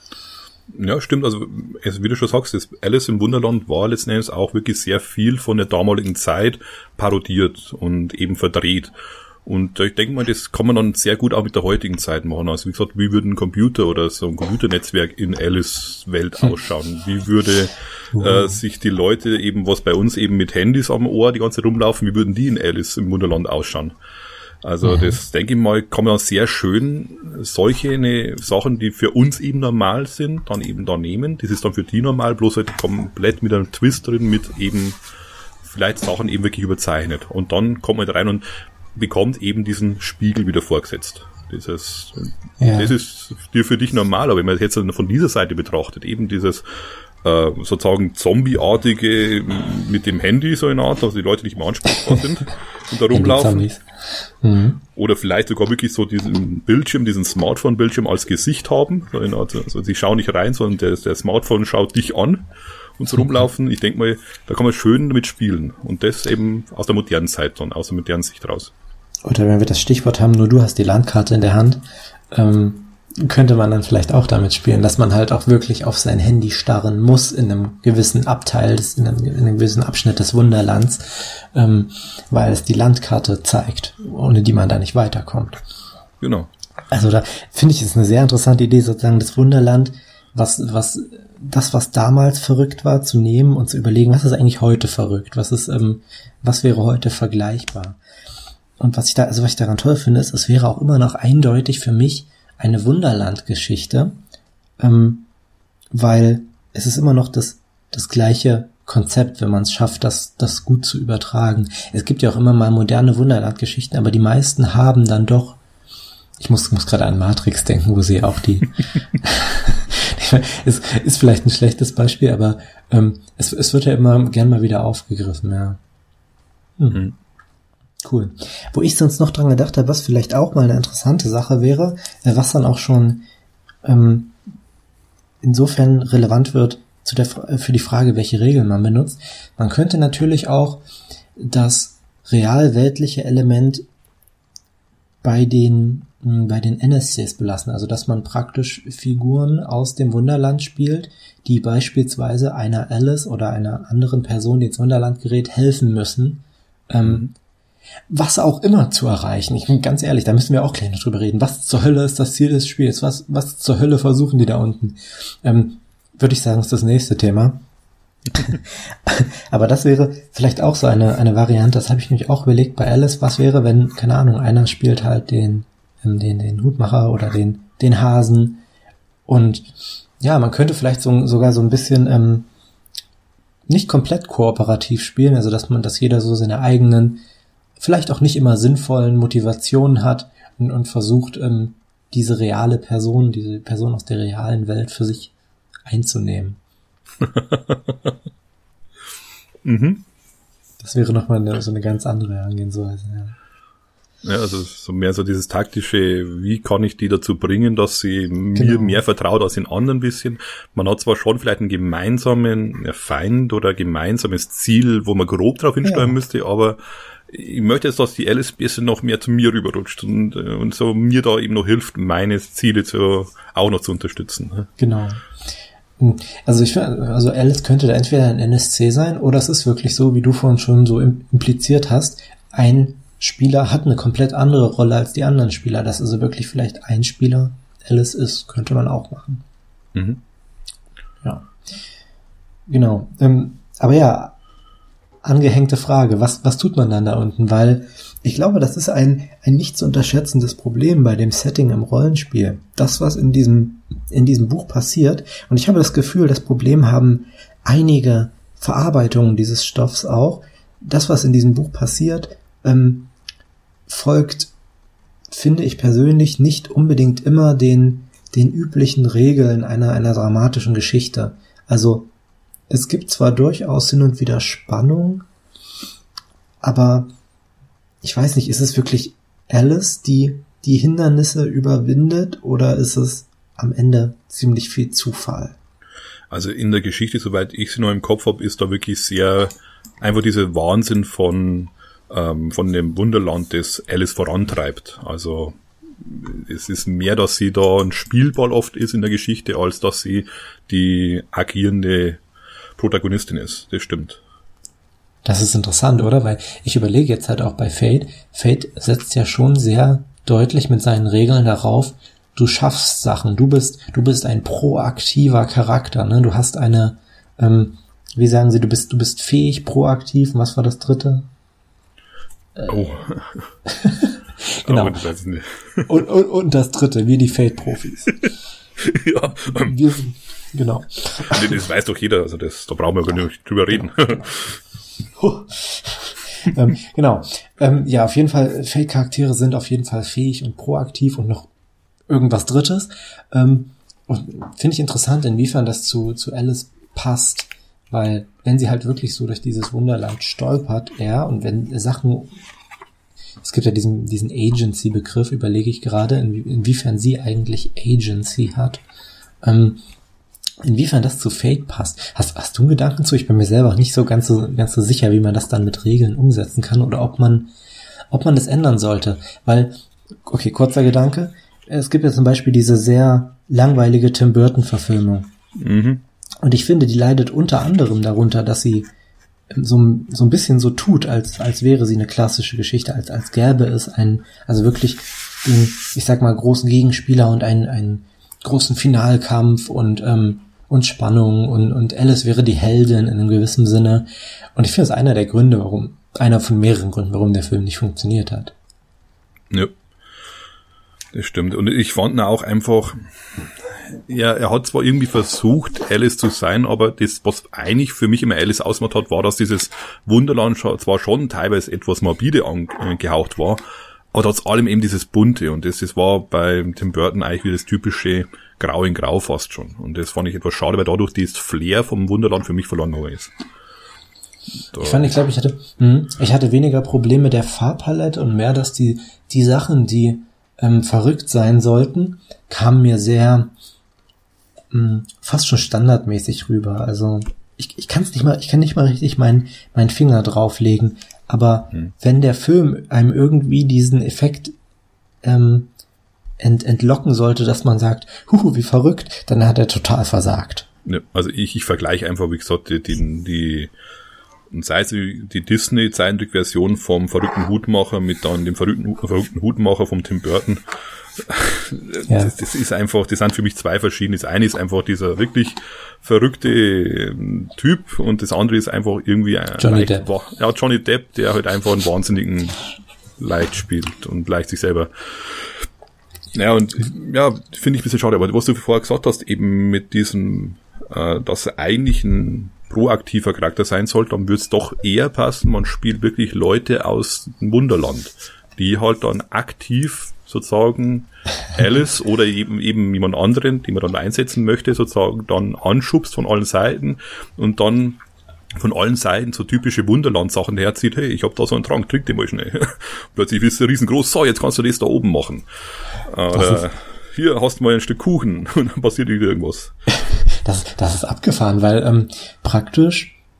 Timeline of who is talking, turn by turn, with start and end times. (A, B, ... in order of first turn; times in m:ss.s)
0:00.7-0:08.9 A
0:09.4-0:23.9 A
0:18.1-0:18.6 B
0:24.6-0:35.0 A
0:24.8-0:25.2 B
0:35.6-0:38.4 A
0:38.9-0:46.6 A
0:42.6-0:42.9 B
0:47.2-0:53.7 A
0:53.1-0:54.8 B
0:54.9-1:02.4 A
1:03.0-1:08.7 A
1:09.2-1:25.6 B
1:26.2-1:26.5 A
1:26.9-1:38.0 B
1:38.8-1:44.2 B
1:44.8-1:45.3 B
1:45.9-1:55.6 B
1:56.4-2:05.8 B
2:06.8-2:07.0 B
2:08.0-2:13.2 B
2:13.8-2:14.4 B
2:15.4-2:20.8 B
2:21.4-2:23.8 B
2:25.2-2:37.3 B
2:37.0-2:37.3 A
2:38.1-2:47.6 B
2:48.3-2:58.6 B
2:59.2-3:02.5 B
3:03.7-3:07.2 B
3:07.8-3:15.3 B
3:15.8-3:16.6 B
3:17.2-3:18.1 A
3:19.6-3:20.0 A
3:20.8-3:23.4 B
3:24.2-3:44.7 A
3:28.5-3:29.0 B
3:35.8-3:36.2 B
3:44.8-3:45.2 B
3:46.0-3:59.4 B
3:59.9-4:00.2 A
4:01.2-4:01.5 B
4:02.7-4:04.4 B
4:05.2-4:23.1 B
4:23.9-4:24.5 B
4:25.3-4:32.1 B
4:32.7-4:35.2 B
4:36.6-4:37.1 B
4:38.0-4:45.6 B
4:46.3-5:02.2 A
5:02.8-5:04.2 A
5:05.2-5:21.3 B
5:22.6-5:23.5 A
5:23.7-5:25.0 B
5:24.6-5:26.0 A
5:25.9-5:28.2 B
5:28.2-5:29.8 A
5:29.5-5:31.6 B
5:31.2-5:34.6 A
5:35.1-5:41.5 B
5:42.1-5:52.3 B
5:53.4-5:58.8 B
5:59.4-5:59.8 B
6:00.6-6:07.5 B
6:08.1-6:15.3 B
6:15.6-6:16.0 A
6:16.4-6:18.9 B
6:19.5-6:38.5 B
6:41.1-6:53.6 A
6:54.1-7:03.3 A
7:04.7-7:05.1 A
7:04.8-7:13.5 B
7:14.7-7:24.5 B
7:25.2-7:25.7 B
7:26.4-7:30.7 B
7:30.8-7:33.7 A
7:34.5-7:40.6 A
7:41.2-7:52.6 A
7:42.1-7:42.3 B
7:49.6-7:50.0 B
7:53.2-7:55.6 A
7:56.3-8:18.0 A
8:18.6-8:25.4 A
8:26.0-8:29.7 A
8:26.3-8:26.6 B
8:30.0-8:33.2 B